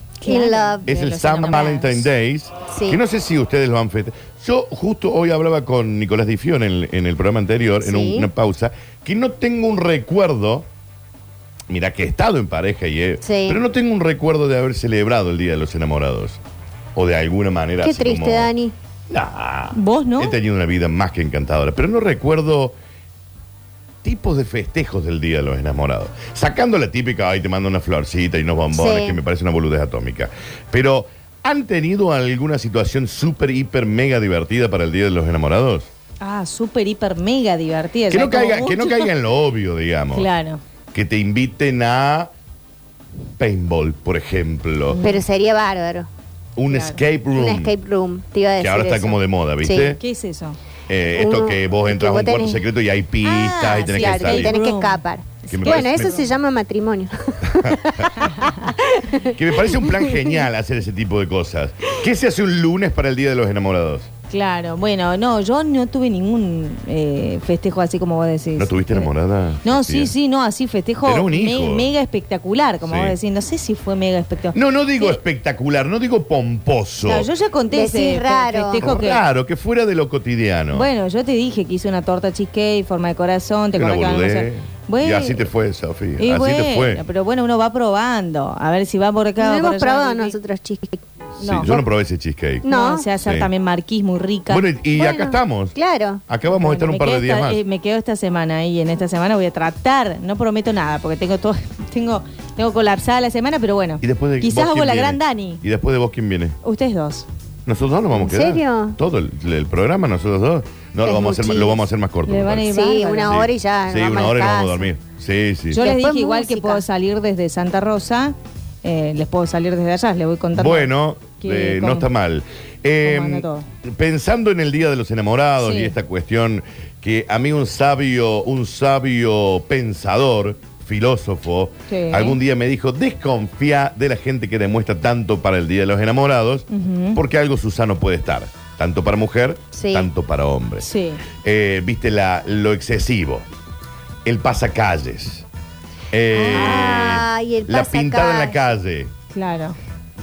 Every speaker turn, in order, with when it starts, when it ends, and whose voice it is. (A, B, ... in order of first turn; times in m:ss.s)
0:00.2-0:02.1 A
0:00.3-0:00.8 B
0:00.9-0:10.7 C
0:02.7-0:03.0 B
0:07.8-0:08.3 B
0:11.7-0:16.4 C
0:13.2-0:13.6 B
0:17.0-0:18.5 C
0:17.8-0:18.8 B
0:19.1-0:22.8 C
0:19.7-0:20.4 A
0:24.0-0:35.9 C
0:28.7-0:29.2 B
0:36.2-0:39.1 A
0:38.1-0:40.3 C
0:40.1-0:40.6 A
0:40.9-0:42.3 C
0:43.4-0:45.0 C
0:44.9-0:45.2 A
0:45.0-0:46.1 B
0:46.6-0:47.8 C
0:46.7-0:47.0 A
0:47.3-0:50.0 B
0:48.6-0:50.0 C
0:50.0-0:50.6 A
0:50.9-0:54.6 C
0:51.2-0:52.6 B
0:53.2-0:56.3 A
0:53.9-1:00.4 B
0:55.5-0:56.2 C
0:57.5-0:57.8 C
0:58.2-0:58.6 A
0:59.3-1:04.1 C
1:04.3-1:09.1 A
1:08.6-1:10.1 C
1:09.6-1:15.2 A
1:11.0-1:11.9 C
1:12.8-1:13.2 C
1:14.5-1:17.3 C
1:17.0-1:19.2 A
1:17.7-1:18.8 B
1:18.8-1:20.9 C
1:20.7-1:25.5 A
1:23.7-1:27.0 C
1:26.2-1:30.4 A
1:29.4-1:31.0 B
1:31.4-1:31.7 A
1:31.4-1:32.7 C
1:32.6-1:33.1 B
1:32.7-1:34.6 A
1:33.2-1:33.5 C
1:34.5-1:35.8 C
1:35.0-1:36.2 B
1:36.3-1:37.6 C
1:36.5-1:45.6 A
1:44.0-1:46.6 C
1:46.6-1:47.3 A
1:47.7-1:52.7 C
1:48.1-1:49.0 B
1:51.0-1:51.8 B
1:52.3-1:53.4 A
1:52.6-1:54.9 B
1:53.3-1:55.8 C
1:55.7-2:02.1 A
1:55.8-1:56.8 B
2:00.5-2:20.9 C
2:03.0-2:03.6 A
2:05.6-2:06.0 A
2:11.9-2:12.4 A
2:16.7-2:17.2 A
2:19.7-2:20.1 B
2:20.8-2:21.2 A
2:21.4-2:23.5 C
2:24.2-2:25.4 C
2:26.1-2:29.1 C
2:26.4-2:27.0 A
2:26.4-2:28.6 B
2:29.3-2:29.8 A